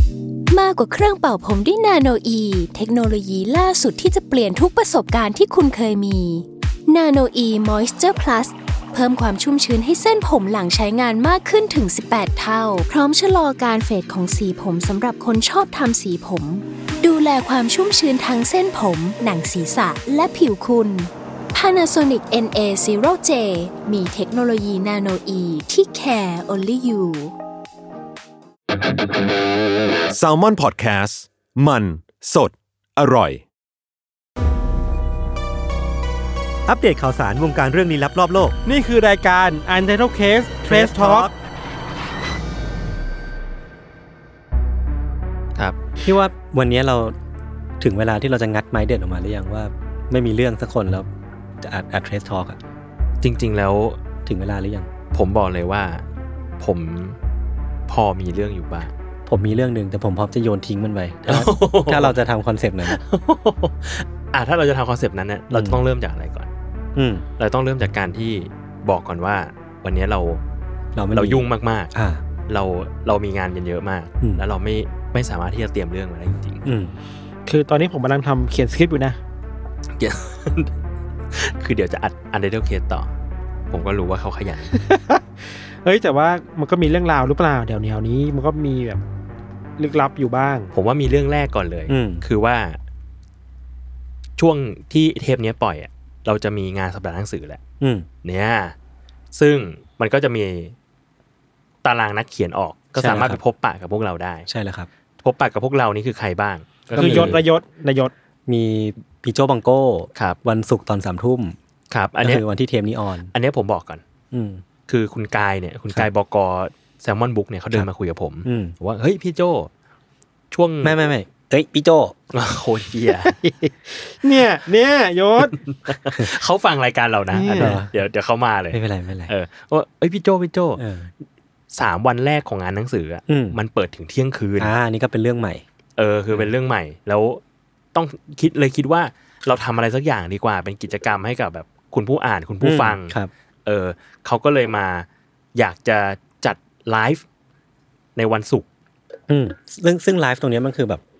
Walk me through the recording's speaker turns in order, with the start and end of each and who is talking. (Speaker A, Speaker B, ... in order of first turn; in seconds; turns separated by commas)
Speaker A: 0.5-27.3, Speaker B: 30.1-33.5, Speaker C: 36.6-38.5, Speaker D: 38.6-41.3, Speaker C: 40.7-41.3, Speaker C: 46.0-47.1, Speaker C: 47.8-51.1, Speaker C: 51.6-52.6, Speaker E: 53.2-54.0, Speaker C: 54.2-54.9, Speaker E: 55.1-56.0, Speaker E: 56.6-57.2, Speaker E: 57.9-58.9, Speaker C: 59.3-63.0, Speaker E: 61.3-62.1, Speaker E: 62.8-66.5, Speaker C: 65.5-65.8, Speaker C: 67.0-67.2, Speaker E: 67.4-70.4, Speaker C: 71.0-72.2, Speaker E: 71.1-71.9, Speaker E: 72.5-76.6, Speaker C: 76.6-77.0, Speaker D: 77.5-79.2, Speaker E: 80.0-80.7, Speaker E: 81.3-83.1, Speaker E: 83.7-84.8, Speaker D: 84.7-85.2, Speaker D: 85.8-89.0, Speaker D: 89.8-90.7, Speaker E: 90.7-92.8, Speaker C: 91.9-92.2, Speaker E: 94.4-97.6, Speaker C: 97.8-98.1, Speaker E: 98.2-98.7, Speaker E: 99.3-100.7, Speaker E: 101.8-104.5, Speaker C: 103.0-103.4, Speaker C: 104.5-104.9, Speaker E: 105.2-107.4, Speaker C: 106.9-107.4, Speaker D: 107.0-108.1, Speaker C: 108.5-111.5, Speaker E: 111.9-112.4, Speaker C: 112.2-113.3, Speaker E: 113.3-114.0, Speaker C: 114.3-114.6, Speaker E: 114.9-119.7, Speaker C: 118.4-118.7, Speaker E: 120.5-121.0, Speaker C: 120.8-122.1, Speaker E: 122.3-123.3, Speaker D: 123.2-125.6, Speaker E: 125.7-130.8, Speaker D: 127.3-127.8, Speaker C: 127.5-127.9, Speaker C: 128.7-129.3, Speaker C: 130.8-131.1, Speaker E: 131.7-134.7, Speaker C: 133.3-133.6, Speaker C: 134.6-135.6, Speaker E: 136.0-137.4, Speaker E: 137.9-147.2, Speaker C: 142.6-143.3, Speaker E: 148.2-148.7, Speaker C: 149.3-151.0